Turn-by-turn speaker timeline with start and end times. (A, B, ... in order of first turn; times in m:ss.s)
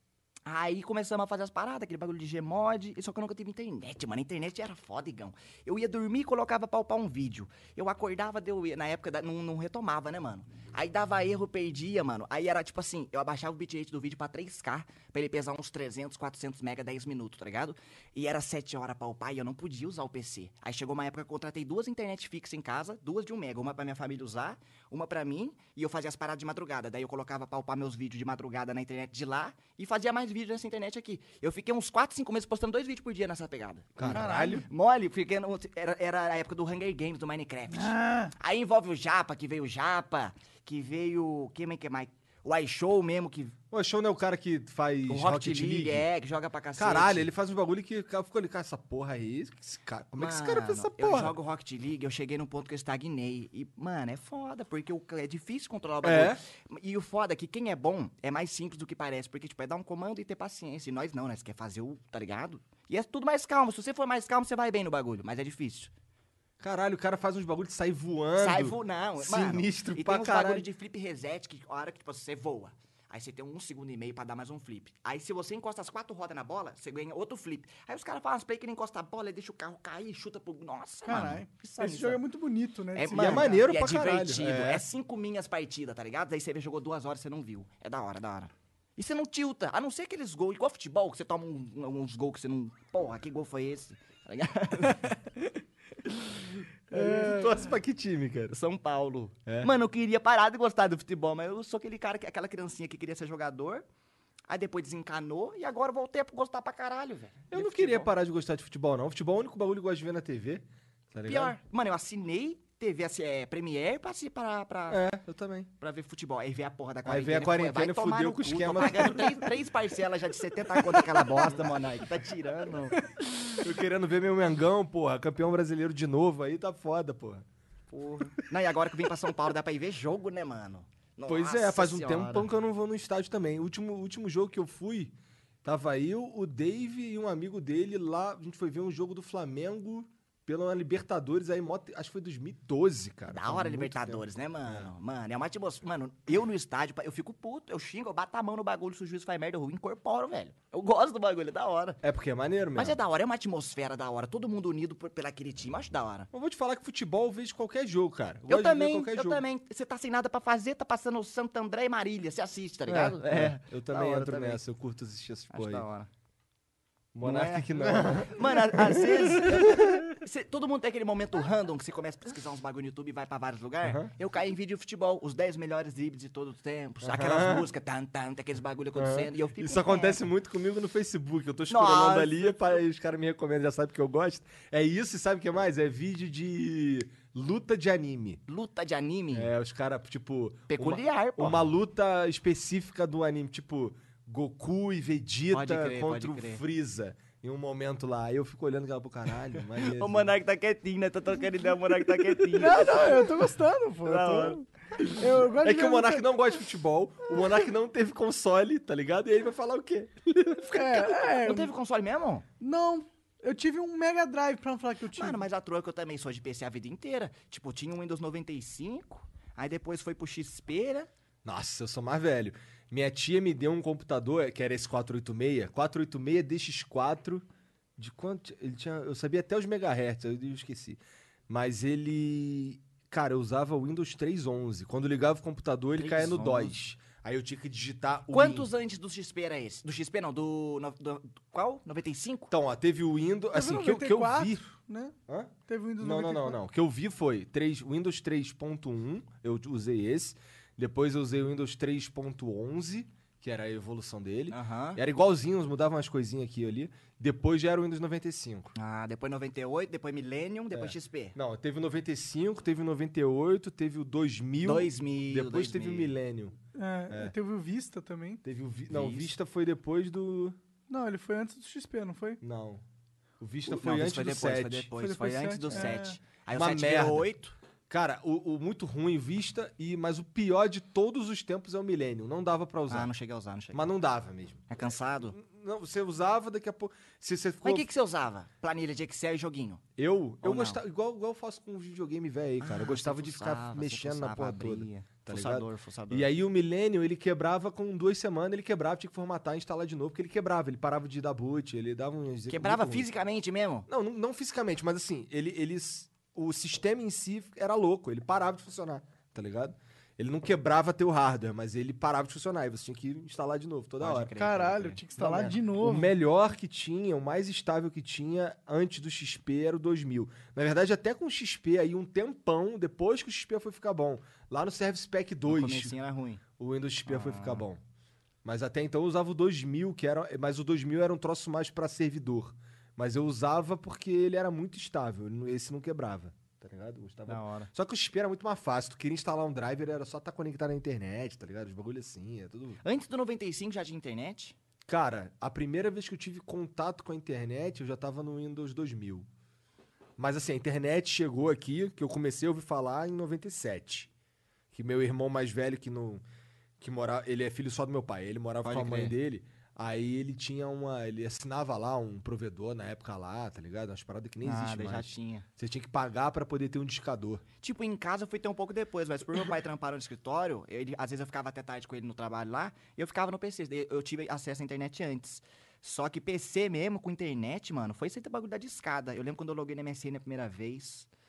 0:00.5-0:43.6 A
0:34.0-0:34.7 B
0:34.0-0:34.6 C
0:37.7-0:38.3 C
0:43.7-0:46.1 B
0:45.1-0:47.3 A
0:46.8-0:51.4 B
0:50.2-1:05.9 A
0:56.0-0:56.4 B
1:06.6-1:10.6 B
1:08.4-1:22.2 A
1:21.0-1:23.6 C
1:22.9-1:35.2 A
1:23.1-1:24.8 B
1:36.9-1:38.6 B
1:37.0-1:37.3 C
1:37.0-1:37.3 A
1:38.5-1:43.8 A
1:44.5-1:48.1 A
1:47.5-1:51.6 B
1:51.2-1:55.0 A
1:54.9-1:55.7 B
1:55.8-2:03.0 A
1:57.1-1:59.4 B
2:00.9-2:01.2 C
2:03.6-2:07.4 B
2:07.9-2:12.5 A
2:11.3-2:24.9 B
2:23.3-2:32.0 A
2:32.0-2:33.0 B
2:32.8-2:36.3 A
2:36.3-2:39.4 B
2:38.4-2:44.6 A
2:42.9-2:45.8 B
2:45.5-2:46.1 A
2:47.1-2:50.2 B
2:47.2-3:00.2 A
2:53.8-2:54.1 B
2:57.0-2:57.7 B
2:59.0-3:08.4 B
3:01.7-3:02.8 A
3:08.5-3:09.5 A
3:09.3-3:20.3 B
3:10.7-3:11.7 A
3:15.5-3:16.6 A
3:19.9-3:23.4 A
3:22.5-3:26.3 C
3:24.0-3:24.6 A
3:25.6-3:31.1 B
3:30.7-3:31.7 C
3:31.1-3:32.4 A
3:32.6-3:35.4 C
3:35.2-3:41.1 A
3:41.4-3:47.4 B
3:48.0-3:58.7 B
3:56.0-3:56.7 A
3:58.3-4:02.5 A
4:02.5-4:04.6 B
4:03.5-4:05.1 C
4:05.3-4:18.7 B
4:05.7-4:06.6 C
4:14.5-4:15.0 A
4:18.7-4:21.4 A
4:20.7-4:26.6 B
4:24.6-4:26.1 A
4:26.7-4:28.4 C
4:28.4-4:30.6 B
4:28.9-4:29.3 A
4:30.9-4:32.4 C
4:32.4-4:32.8 B
4:33.4-4:34.9 B
4:33.6-4:37.6 A
4:35.0-4:36.2 C
4:36.5-4:37.3 B
4:37.9-4:43.1 B
4:42.9-4:43.9 A
4:43.7-4:44.6 B
4:44.7-4:45.4 A
4:45.3-4:47.9 B
4:47.6-4:49.8 A
4:50.0-5:03.1 B
4:50.4-4:50.8 A
4:52.6-4:56.3 A
5:02.5-5:03.9 A
5:03.9-5:14.3 B
5:14.0-5:15.0 A
5:14.4-5:16.1 C
5:15.2-5:25.9 B
5:25.4-5:26.4 A
5:26.6-5:27.8 B
5:27.1-5:27.6 A
5:28.4-5:42.8 B
5:37.3-5:37.7 A
5:42.8-5:44.6 A
5:44.9-5:49.3 B
5:50.2-5:54.1 B
5:54.7-5:56.2 B
5:56.8-6:07.4 B
5:58.6-5:59.1 A
6:04.4-6:05.4 A
6:07.6-6:21.1 A